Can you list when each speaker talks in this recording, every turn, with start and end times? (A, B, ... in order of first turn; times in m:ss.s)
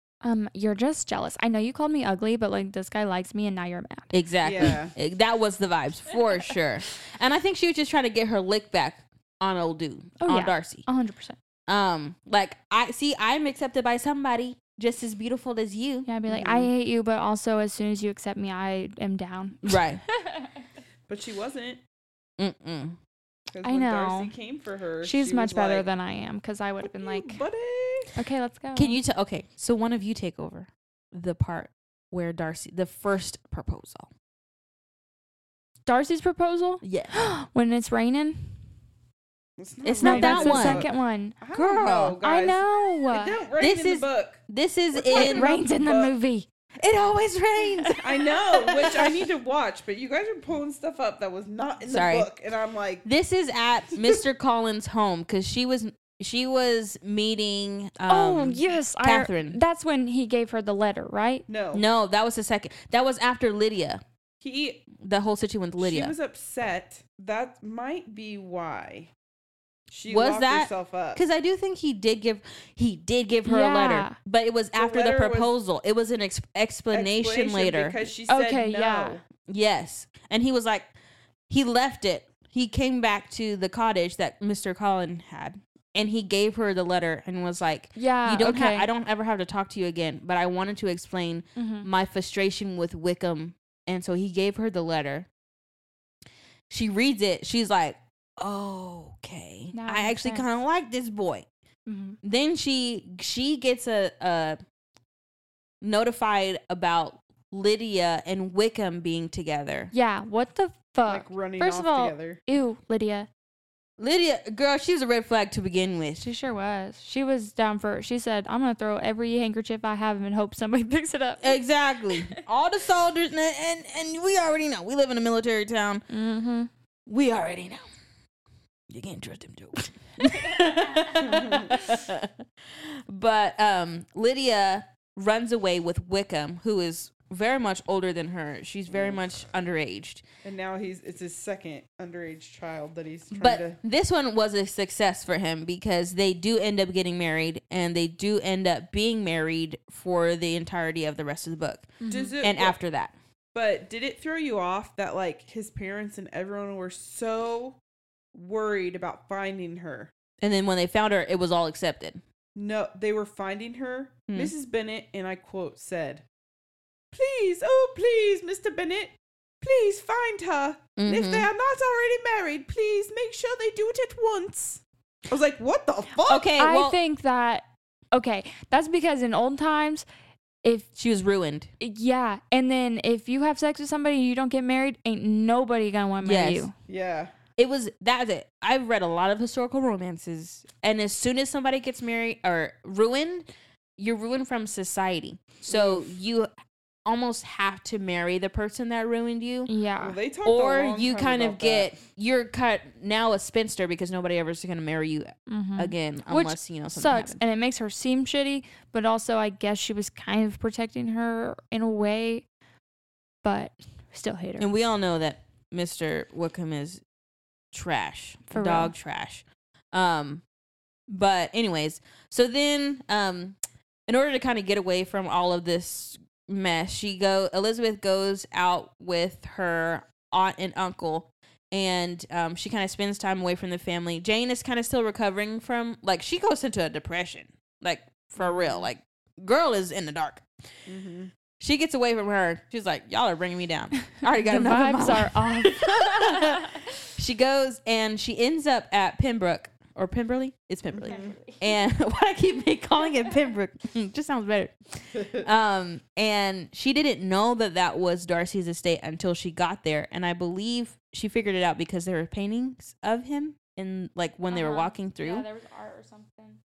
0:00.2-0:04.1 A
0:04.1-0:10.9 B
0:04.4-0:04.9 C
0:10.2-0:11.4 A
0:11.7-0:16.1 B
0:16.1-0:20.5 A
0:16.3-0:16.7 C
0:19.6-0:20.0 B
0:21.1-0:21.8 C
0:22.4-0:23.0 B
0:23.5-0:25.8 C
0:23.6-0:24.4 A
0:25.0-0:27.4 A
0:26.8-0:28.1 C
0:28.2-0:29.0 A
0:28.8-0:34.1 B
0:35.9-0:38.6 A
0:36.8-0:37.1 B
0:39.6-0:44.4 C
0:39.8-0:40.9 B
0:40.0-0:41.4 A
0:41.5-0:42.2 B
0:42.2-0:43.4 A
0:43.6-0:45.5 B
0:44.9-0:46.1 C
0:45.2-0:46.5 A
0:46.8-0:48.0 B
0:48.0-0:53.1 C
0:51.9-0:52.3 B
0:53.0-0:59.6 B
0:58.1-1:01.5 A
1:01.5-1:01.8 C
1:01.7-1:04.0 B
1:04.4-1:04.9 C
1:05.0-1:06.1 B
1:05.8-1:09.1 C
1:09.9-1:11.2 C
1:10.1-1:18.1 B
1:13.4-1:14.2 A
1:14.8-1:15.5 C
1:16.9-1:19.2 C
1:18.3-1:19.2 A
1:19.5-1:20.9 B
1:21.5-1:35.3 B
1:28.0-1:28.9 A
1:31.6-1:31.9 A
1:36.7-1:41.5 B
1:39.7-1:40.5 A
1:41.9-1:42.2 A
1:42.2-1:44.6 B
1:45.8-1:49.9 B
1:49.9-1:53.3 A
1:51.1-1:52.4 C
1:54.0-1:56.3 B
1:56.2-2:01.6 A
2:01.4-2:06.0 B
2:06.1-2:06.7 A
2:07.1-2:07.9 B
2:08.9-2:20.2 B
2:11.3-2:11.7 C
2:18.9-2:19.2 C
2:20.4-2:23.8 C
2:23.3-2:33.1 B
2:32.0-2:32.3 A
2:32.1-2:32.8 C
2:33.5-2:37.8 C
2:38.3-2:40.1 C
2:40.4-2:42.2 B
2:42.6-2:46.2 C
2:44.3-2:44.5 B
2:47.1-2:56.5 C
2:51.0-2:51.5 B
2:56.3-2:57.0 B
2:56.6-3:00.1 A
3:00.6-3:00.9 A
3:01.0-3:01.7 B
3:01.8-3:06.7 A
3:06.2-3:06.7 B
3:06.9-3:07.3 C
3:07.6-3:13.5 B
3:14.0-3:16.5 B
3:15.7-3:16.1 C
3:17.1-3:19.7 B
3:19.7-3:20.2 A
3:20.0-3:21.9 C
3:20.4-3:27.4 B
3:25.5-3:32.4 A
3:33.4-3:34.7 A
3:34.6-3:37.0 B
3:37.7-3:40.4 B
3:38.5-3:38.9 A
3:41.1-4:00.5 B
3:58.4-3:58.9 C
4:00.9-4:01.3 C
4:01.6-4:25.5 B
4:04.4-4:06.6 A
4:10.9-4:11.4 C
4:11.0-4:11.9 A
4:24.5-4:26.6 A